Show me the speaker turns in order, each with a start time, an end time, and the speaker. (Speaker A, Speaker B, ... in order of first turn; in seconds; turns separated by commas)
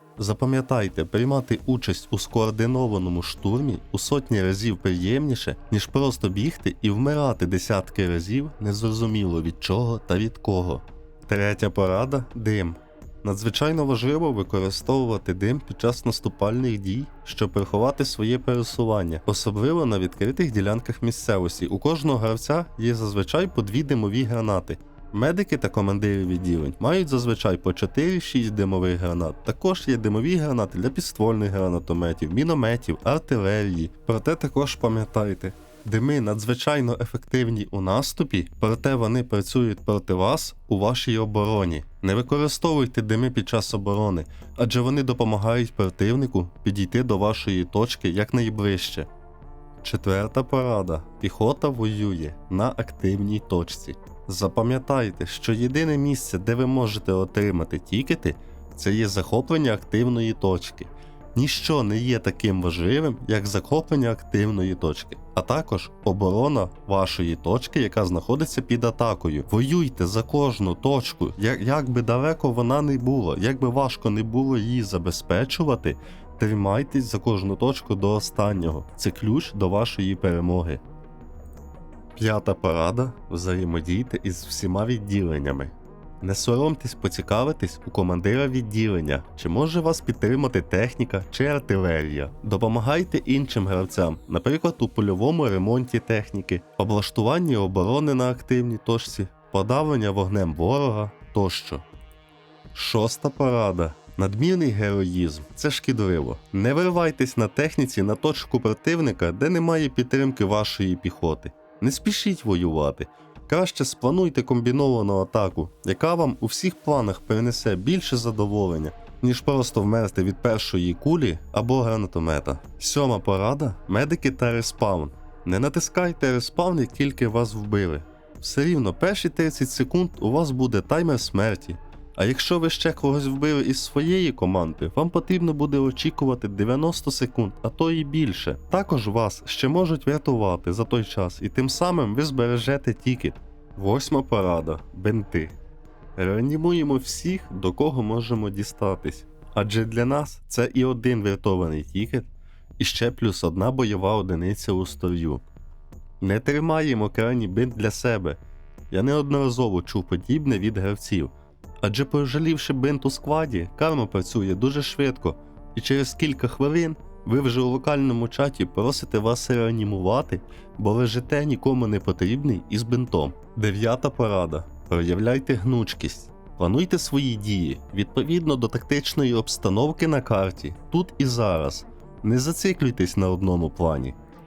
Speaker A: 0.2-49.1, Speaker A: 49.8-80.8, Speaker A: 82.2-101.8, Speaker A: 102.7-145.6, Speaker A: 146.2-155.4, Speaker A: 156.2-158.4, Speaker A: 158.9-184.2